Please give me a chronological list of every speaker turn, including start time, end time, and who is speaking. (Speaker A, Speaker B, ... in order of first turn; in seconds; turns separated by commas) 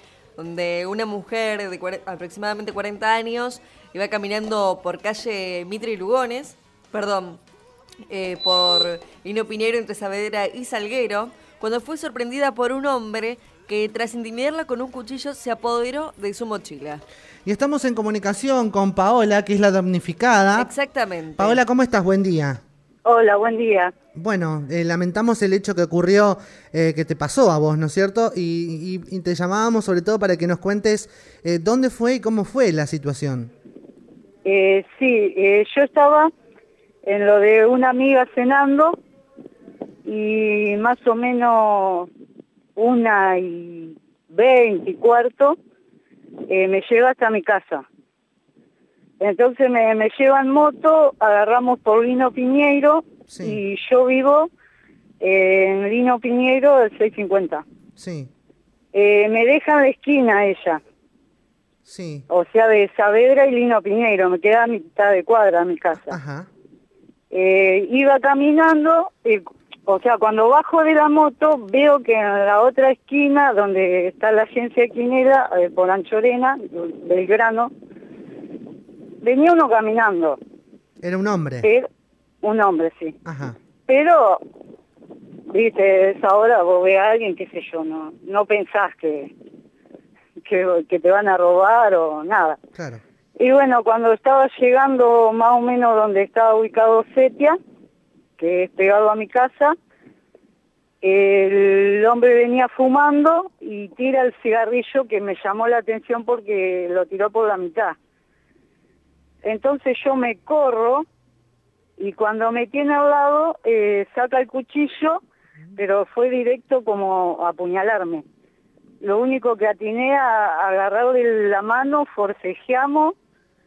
Speaker A: 0.4-7.4, Speaker A: 8.1-17.0, Speaker B: 17.5-20.7, Speaker A: 20.6-21.6, Speaker B: 21.4-22.6, Speaker C: 23.1-23.9, Speaker B: 24.1-33.5, Speaker C: 34.5-36.3, Speaker C: 37.0-39.0, Speaker C: 40.0-42.1, Speaker C: 42.8-45.6, Speaker C: 46.5-47.9, Speaker C: 49.2-54.5, Speaker B: 53.3-53.6, Speaker C: 55.2-57.6, Speaker B: 58.0-58.3, Speaker C: 58.9-60.8, Speaker B: 61.9-62.3, Speaker C: 62.3-66.2, Speaker B: 66.0-66.5, Speaker C: 67.3-77.7, Speaker C: 79.2-80.4, Speaker B: 81.0-81.7, Speaker C: 81.6-81.9, Speaker C: 82.4-83.2, Speaker B: 83.2-83.6, Speaker C: 83.9-84.4, Speaker C: 85.5-89.3, Speaker C: 90.4-92.6, Speaker B: 92.8-93.0, Speaker C: 93.4-97.6, Speaker C: 98.4-99.8, Speaker C: 101.0-108.0, Speaker C: 109.4-111.1, Speaker C: 112.0-115.2, Speaker C: 115.8-118.2, Speaker C: 119.0-123.2